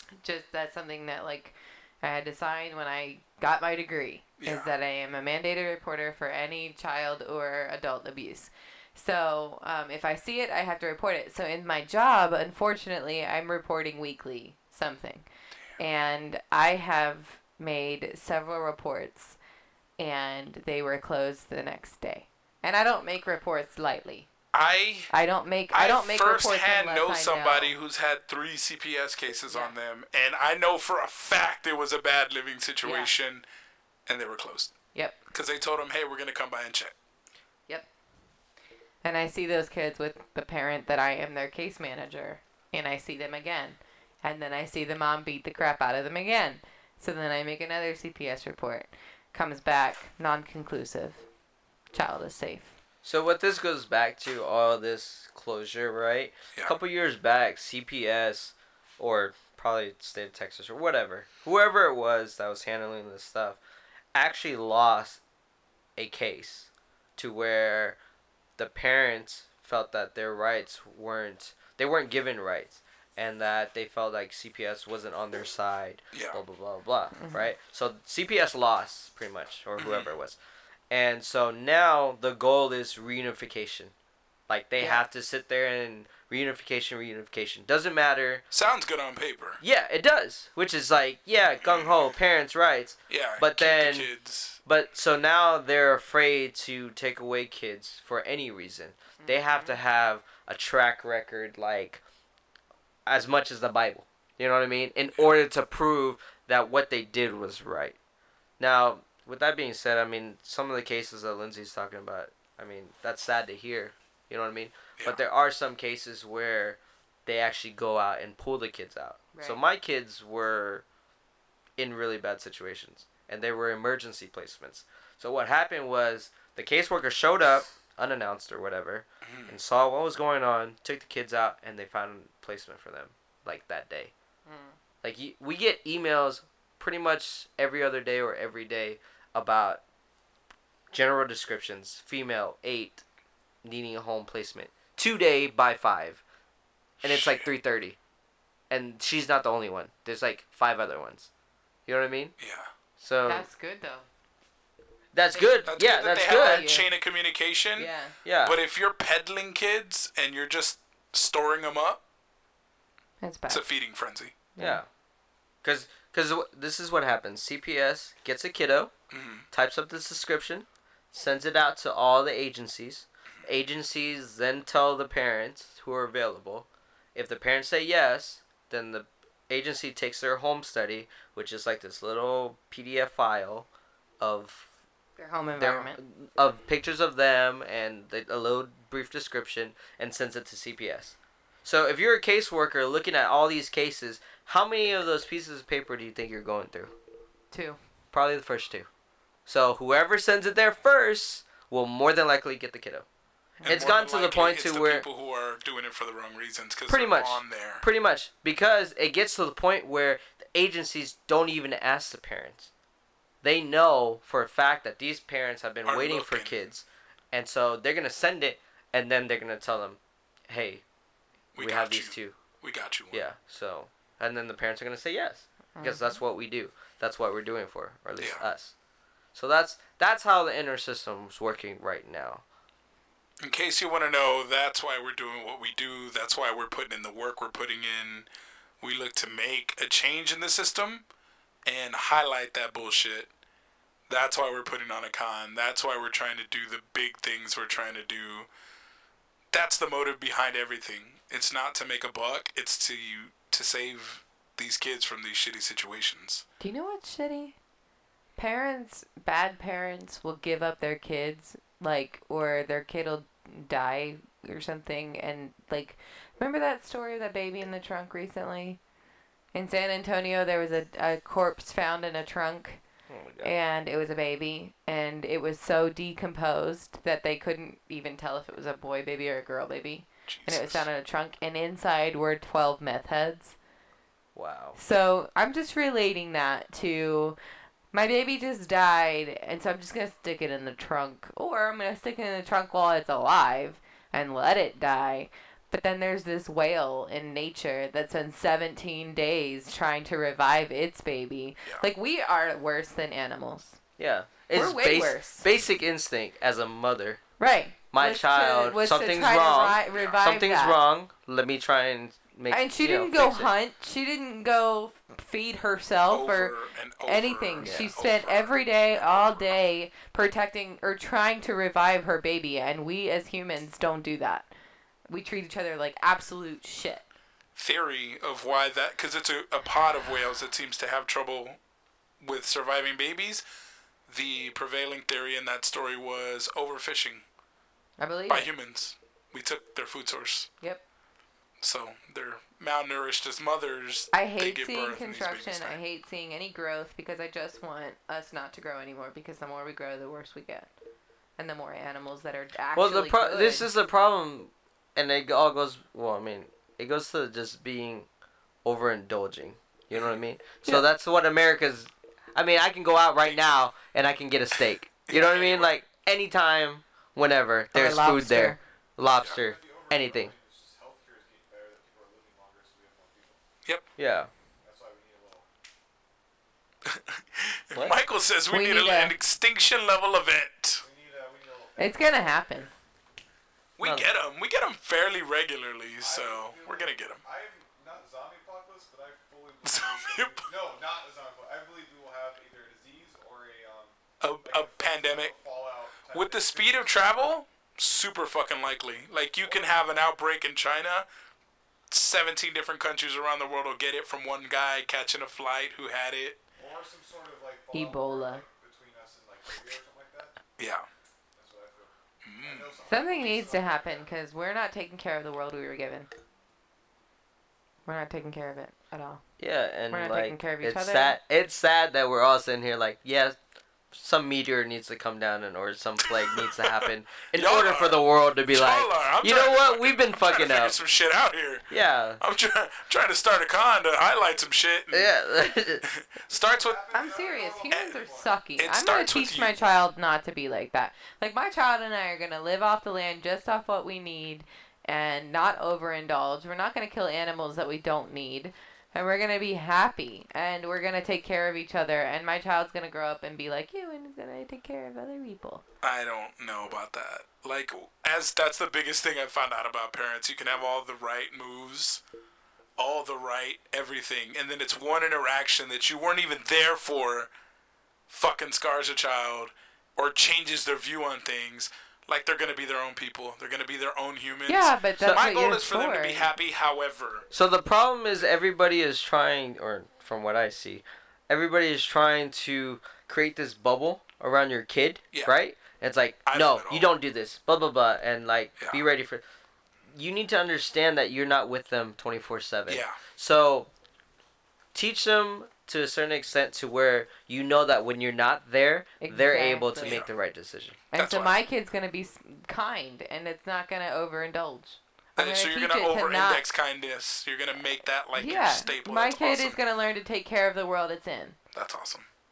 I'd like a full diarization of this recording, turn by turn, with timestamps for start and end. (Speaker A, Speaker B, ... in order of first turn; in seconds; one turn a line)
Speaker A: 0.2-15.2
Speaker B: 4.4-4.7
Speaker A: 15.8-19.4
Speaker A: 20.0-24.3
Speaker B: 24.5-25.1
Speaker A: 25.1-27.7
Speaker B: 25.7-33.4
Speaker A: 29.5-29.7
Speaker A: 32.8-33.1
Speaker B: 34.0-34.7
Speaker B: 35.3-36.9
Speaker A: 39.0-51.2
Speaker A: 51.9-52.8
Speaker C: 53.0-63.6
Speaker C: 64.1-65.2
Speaker C: 66.0-68.0
Speaker C: 68.6-80.4
Speaker B: 76.1-76.4
Speaker A: 77.2-77.5
Speaker B: 79.8-80.1
Speaker C: 80.9-83.9
Speaker C: 84.5-88.4
Speaker B: 88.5-89.6
Speaker C: 89.6-94.1
Speaker B: 91.6-92.1
Speaker B: 93.1-94.6
Speaker C: 94.6-102.0
Speaker A: 99.2-99.8
Speaker C: 103.0-108.0
Speaker C: 108.6-120.8
Speaker A: 119.3-119.6
Speaker C: 121.8-134.1
Speaker B: 129.2-129.5
Speaker A: 134.4-134.8
Speaker C: 135.0-139.8
Speaker C: 140.9-143.0
Speaker C: 143.6-146.2
Speaker B: 147.0-147.5
Speaker C: 147.0-147.9
Speaker C: 148.7-151.3
Speaker C: 151.9-152.3
Speaker B: 152.4-152.7
Speaker C: 153.0-153.5
Speaker A: 153.2-154.1
Speaker C: 155.1-156.7
Speaker A: 155.3-156.9
Speaker B: 155.7-157.9
Speaker A: 157.8-158.2
Speaker C: 158.2-158.6
Speaker B: 158.4-162.0
Speaker A: 163.2-163.7
Speaker B: 163.5-164.3
Speaker A: 164.6-164.8
Speaker C: 164.6-164.9
Speaker C: 165.6-168.9
Speaker B: 169.1-169.4
Speaker C: 169.5-183.7
Speaker C: 184.2-184.7
Speaker A: 185.2-186.0
Speaker C: 185.6-196.9
Speaker A: 197.5-197.8
Speaker C: 198.1-198.9
Speaker C: 199.5-203.1
Speaker A: 203.6-203.9
Speaker B: 203.6-207.8
Speaker C: 203.7-205.0
Speaker C: 206.9-212.7
Speaker C: 213.4-220.8
Speaker B: 215.8-216.8
Speaker B: 221.5-223.2
Speaker C: 221.6-222.3
Speaker C: 223.1-228.7
Speaker A: 225.8-226.2
Speaker B: 228.2-228.4
Speaker C: 229.3-232.4
Speaker B: 233.4-238.3
Speaker B: 238.8-241.0
Speaker B: 241.7-243.3
Speaker B: 244.1-248.5
Speaker B: 249.5-256.4
Speaker A: 256.6-257.6
Speaker A: 258.4-268.8
Speaker A: 269.5-272.8
Speaker C: 273.1-273.5
Speaker A: 273.4-283.6
Speaker B: 280.3-280.9
Speaker C: 284.4-284.8
Speaker A: 284.8-287.4
Speaker A: 287.9-303.8
Speaker C: 304.0-307.2
Speaker A: 304.5-305.4
Speaker A: 307.4-310.8
Speaker C: 307.9-313.5
Speaker B: 309.9-310.2
Speaker A: 312.5-316.5
Speaker B: 316.1-319.6
Speaker A: 317.0-324.5
Speaker C: 317.6-317.9
Speaker A: 325.1-327.0
Speaker B: 327.6-331.6
Speaker B: 332.2-333.4
Speaker B: 334.1-337.2
Speaker A: 338.0-338.5
Speaker B: 338.3-340.5
Speaker B: 341.6-345.8
Speaker A: 344.1-350.7
Speaker A: 351.4-353.7
Speaker C: 352.8-358.1
Speaker C: 358.6-370.3
Speaker B: 364.6-365.8
Speaker A: 367.7-368.6
Speaker D: 369.3-373.4
Speaker C: 374.0-374.3
Speaker D: 374.6-375.5
Speaker B: 376.9-380.8
Speaker C: 377.7-378.0
Speaker A: 378.5-379.1
Speaker D: 380.8-382.7
Speaker A: 381.8-382.7
Speaker B: 383.8-387.2
Speaker C: 383.8-384.1
Speaker D: 386.0-397.3
Speaker B: 389.6-390.5
Speaker B: 394.2-395.3
Speaker B: 396.1-401.1
Speaker B: 401.9-406.4
Speaker D: 406.6-410.3
Speaker A: 407.7-408.4
Speaker B: 410.6-410.9
Speaker D: 411.3-414.1
Speaker B: 412.2-412.7
Speaker A: 412.9-416.1
Speaker A: 417.9-419.2
Speaker C: 419.4-423.4
Speaker A: 419.9-421.2
Speaker C: 423.9-430.7
Speaker B: 426.0-431.7
Speaker C: 431.7-432.2
Speaker B: 432.2-435.1
Speaker C: 434.9-435.8
Speaker B: 435.8-436.8
Speaker D: 436.4-438.3
Speaker A: 436.9-455.6
Speaker B: 438.6-439.6
Speaker B: 455.8-462.0
Speaker B: 462.8-467.3
Speaker B: 468.1-477.3
Speaker A: 474.5-476.3
Speaker C: 477.3-489.2
Speaker B: 486.2-486.9
Speaker C: 489.9-493.7
Speaker B: 492.7-493.0
Speaker C: 494.7-500.8
Speaker A: 499.0-500.0
Speaker B: 499.8-500.1
Speaker A: 500.9-506.4
Speaker B: 500.9-501.4
Speaker B: 505.2-509.6
Speaker A: 508.1-511.4
Speaker B: 511.5-512.1